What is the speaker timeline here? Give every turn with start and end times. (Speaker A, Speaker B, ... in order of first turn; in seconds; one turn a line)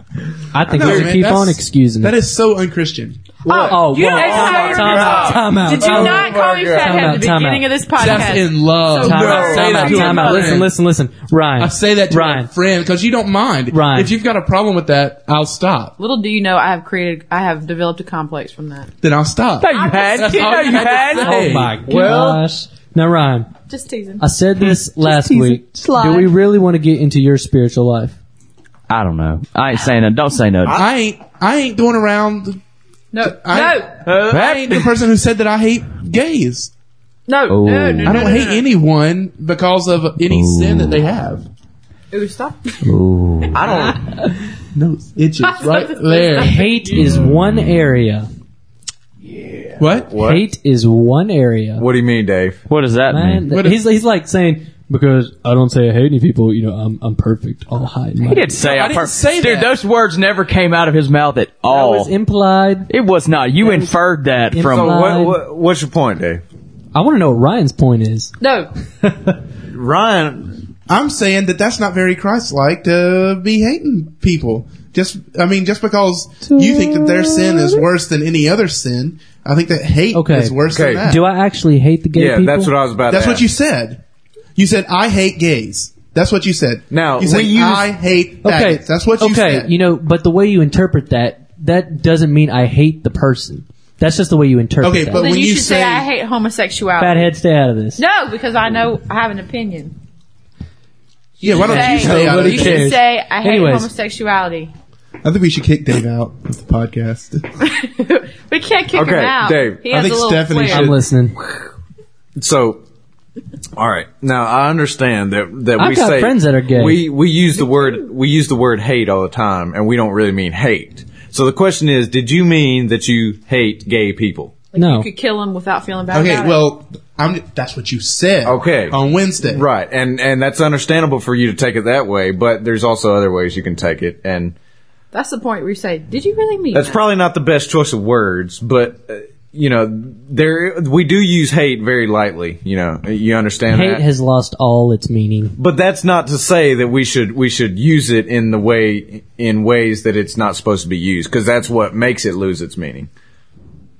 Speaker A: 0.5-2.2
Speaker B: 0.6-3.2
Speaker C: 3.5-7.2
Speaker D: 3.5-10.5
Speaker A: 3.5-7.7
Speaker B: 8.0-10.7
Speaker C: 9.0-9.8
Speaker A: 9.1-12.5
Speaker B: 11.6-15.9
Speaker A: 13.7-14.1
Speaker D: 16.0-18.9
Speaker B: 19.0-21.7
Speaker E: 19.6-21.4
Speaker D: 19.6-21.5
Speaker A: 21.3-23.5
Speaker C: 21.8-22.4
Speaker D: 23.7-24.2
Speaker A: 24.2-28.2
Speaker E: 24.6-26.3
Speaker E: 28.9-30.8
Speaker B: 30.7-32.6
Speaker D: 33.1-34.2
Speaker B: 33.2-36.7
Speaker E: 34.0-34.9
Speaker D: 37.3-38.6
Speaker E: 37.5-38.2
Speaker B: 38.0-41.5
Speaker E: 40.3-41.0
Speaker D: 42.1-42.9
Speaker E: 42.8-43.6
Speaker C: 43.5-44.0
Speaker D: 43.9-44.2
Speaker B: 44.7-46.5
Speaker D: 45.4-47.1
Speaker A: 46.4-48.3
Speaker E: 47.0-47.6
Speaker B: 49.8-50.1
Speaker C: 50.0-50.5
Speaker A: 50.2-51.9
Speaker C: 51.8-52.6
Speaker E: 52.7-53.5
Speaker A: 53.1-58.5
Speaker B: 53.5-53.8
Speaker E: 58.3-62.1
Speaker B: 58.6-59.8
Speaker A: 61.7-62.9
Speaker E: 62.9-64.9
Speaker A: 63.6-63.9
Speaker A: 64.5-65.4
Speaker C: 64.7-66.4
Speaker A: 66.9-68.3
Speaker D: 68.4-68.7
Speaker A: 69.0-69.3
Speaker C: 69.7-70.6
Speaker B: 70.9-81.2
Speaker A: 76.5-77.8
Speaker A: 80.1-80.5
Speaker C: 80.7-81.0
Speaker A: 81.0-82.7
Speaker C: 82.1-83.4
Speaker B: 83.1-84.0
Speaker B: 84.5-89.7
Speaker C: 86.9-87.9
Speaker A: 88.4-95.3
Speaker B: 94.8-96.1
Speaker D: 95.1-97.3
Speaker A: 97.0-98.0
Speaker D: 98.0-100.0
Speaker B: 101.4-102.9
Speaker D: 101.4-104.7
Speaker A: 101.4-103.9
Speaker B: 105.2-107.4
Speaker D: 107.6-110.9
Speaker C: 108.9-110.0
Speaker B: 109.9-110.9
Speaker A: 110.7-111.4
Speaker C: 112.4-112.8
Speaker C: 113.8-124.6
Speaker A: 115.8-117.0
Speaker D: 117.5-118.1
Speaker D: 124.7-126.6
Speaker A: 124.7-125.1
Speaker B: 126.1-129.6
Speaker C: 128.4-134.5
Speaker D: 135.1-137.1
Speaker C: 136.7-144.0
Speaker A: 143.7-145.5
Speaker C: 145.6-153.1